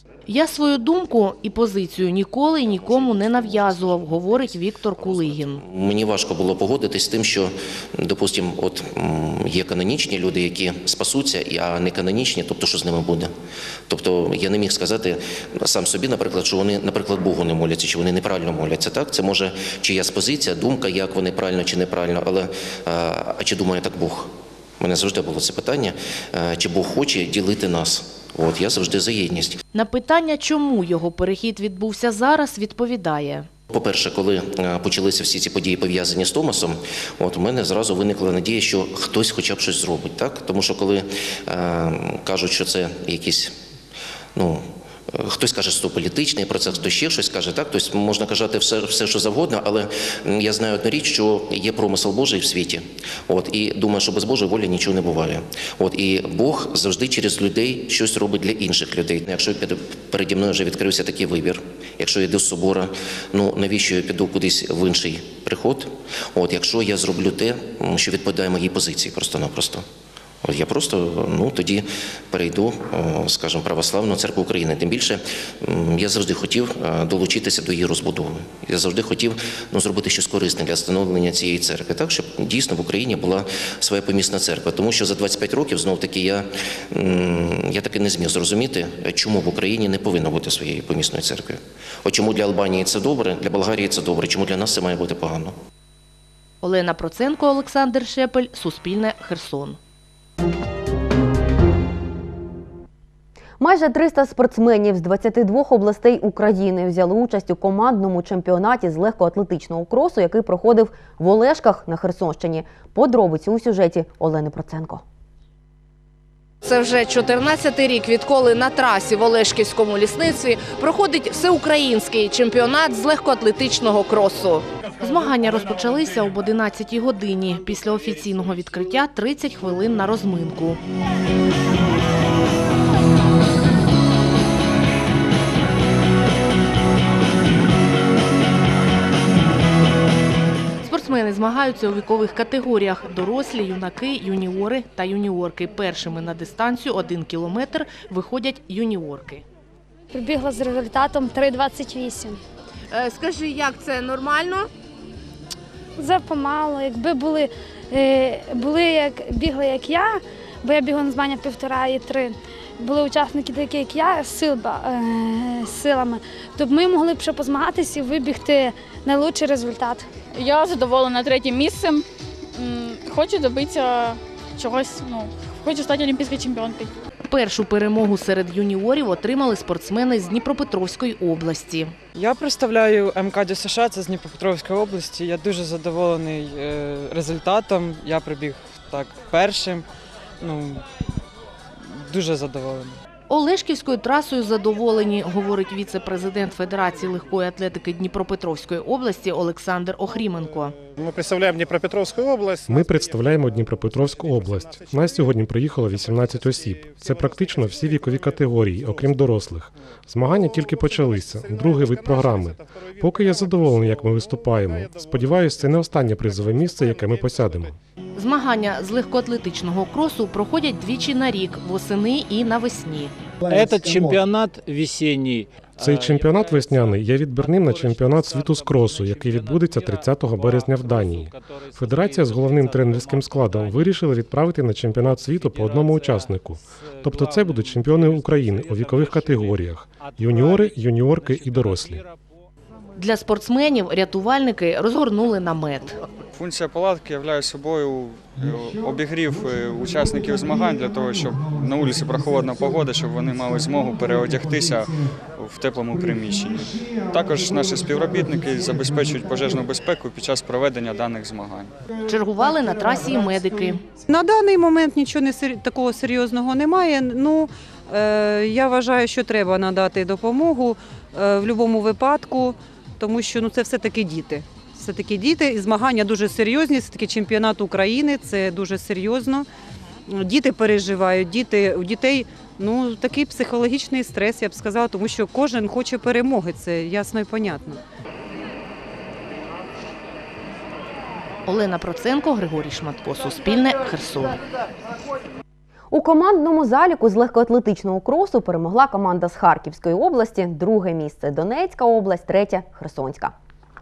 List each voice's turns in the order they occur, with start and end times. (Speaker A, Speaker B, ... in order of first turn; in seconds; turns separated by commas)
Speaker A: 0.3-5.6, Speaker B: 5.6-13.3, Speaker B: 13.9-29.6, Speaker A: 29.7-33.5, Speaker B: 33.7-43.5, Speaker B: 44.4-69.8, Speaker B: 70.4-95.5, Speaker A: 96.6-99.8, Speaker C: 103.6-115.0, Speaker A: 116.6-130.8, Speaker A: 140.8-149.4, Speaker D: 150.1-152.4, Speaker A: 152.9-154.7, Speaker D: 156.0-170.1, Speaker E: 170.3-172.0, Speaker E: 172.6-176.9, Speaker A: 177.3-181.9, Speaker F: 182.2-189.8, Speaker F: 190.4-190.8, Speaker F: 192.1-192.9, Speaker A: 193.3-200.7, Speaker G: 201.0-202.7, Speaker H: 202.7-217.8, Speaker A: 218.1-223.1, Speaker I: 223.5-225.5, Speaker H: 225.8-242.0, Speaker A: 243.0-246.0, Speaker J: 246.3-254.9, Speaker G: 249.5-252.9, Speaker G: 253.4-254.8, Speaker J: 255.4-261.7, Speaker G: 256.5-259.6, Speaker A: 262.1-263.8, Speaker K: 264.1-279.4, Speaker K: 280.1-287.8, Speaker A: 291.4-294.4, Speaker C: 295.9-303.3